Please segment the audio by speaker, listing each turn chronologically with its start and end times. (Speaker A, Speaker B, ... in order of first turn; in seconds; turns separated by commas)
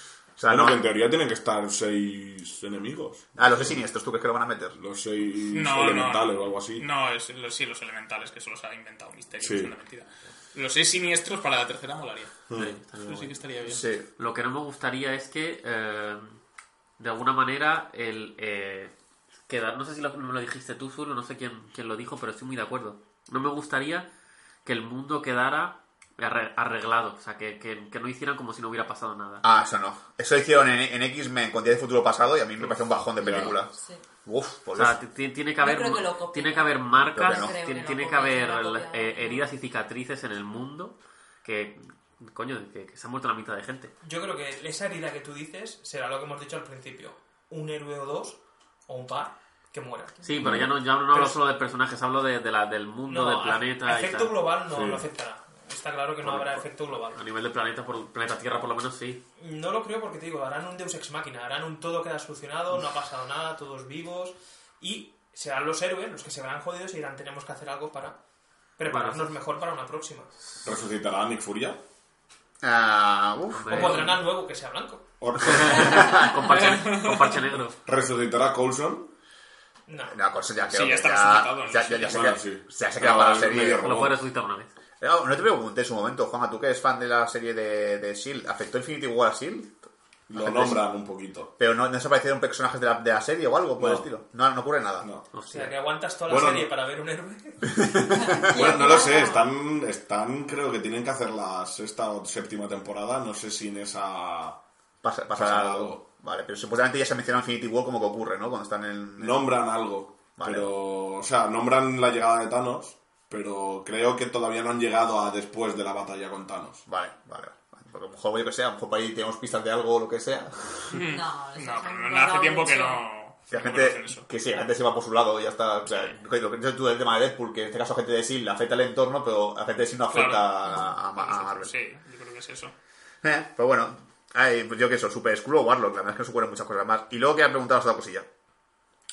Speaker A: 0.4-0.9, Speaker B: 0.5-3.7, Speaker A: 3.4-4.8, Speaker B: 4.8-6.8, Speaker C: 5.5-12.4, Speaker B: 9.4-9.7, Speaker B: 12.5-12.8, Speaker D: 12.5-13.4, Speaker C: 13.0-13.8, Speaker A: 13.7-14.1, Speaker D: 14.2-16.4, Speaker D: 17.0-18.9, Speaker D: 19.5-24.1, Speaker D: 24.6-29.4, Speaker A: 29.4-33.7, Speaker B: 33.2-33.5, Speaker E: 33.7-34.0, Speaker A: 34.2-35.0, Speaker D: 34.7-43.9, Speaker E: 35.6-39.5, Speaker A: 37.2-37.5, Speaker F: 44.0-50.4, Speaker D: 50.2-54.3, Speaker B: 50.4-50.8, Speaker F: 51.1-51.4, Speaker F: 53.1-57.2, Speaker B: 54.7-55.1, Speaker D: 56.2-59.2, Speaker F: 59.4-68.2, Speaker F: 68.8-70.3, Speaker D: 68.9-69.3, Speaker B: 70.6-71.8, Speaker A: 72.6-74.1, Speaker D: 73.5-74.2, Speaker F: 73.7-75.2, Speaker B: 75.2-76.2, Speaker D: 75.4-77.8, Speaker A: 75.6-76.3, Speaker C: 76.4-77.4, Speaker B: 77.8-79.1, Speaker F: 79.9-80.2, Speaker A: 80.1-83.9, Speaker C: 80.7-82.3, Speaker B: 82.0-84.2, Speaker D: 83.8-84.7, Speaker A: 85.0-90.8, Speaker B: 90.3-91.5, Speaker A: 91.6-95.1, Speaker B: 93.8-94.1, Speaker B: 95.0-95.4, Speaker D: 95.3-95.7, Speaker F: 95.5-97.9, Speaker B: 96.3-96.7, Speaker A: 97.9-98.3, Speaker E: 98.2-99.5, Speaker B: 98.3-104.6, Speaker A: 105.0-109.5, Speaker B: 105.3-106.0, Speaker B: 109.2-116.8, Speaker A: 110.4-110.7, Speaker A: 116.9-121.0, Speaker C: 120.9-124.3, Speaker E: 121.1-123.0, Speaker A: 123.5-131.7, Speaker C: 125.9-126.2, Speaker C: 130.1-132.7, Speaker A: 133.2-138.3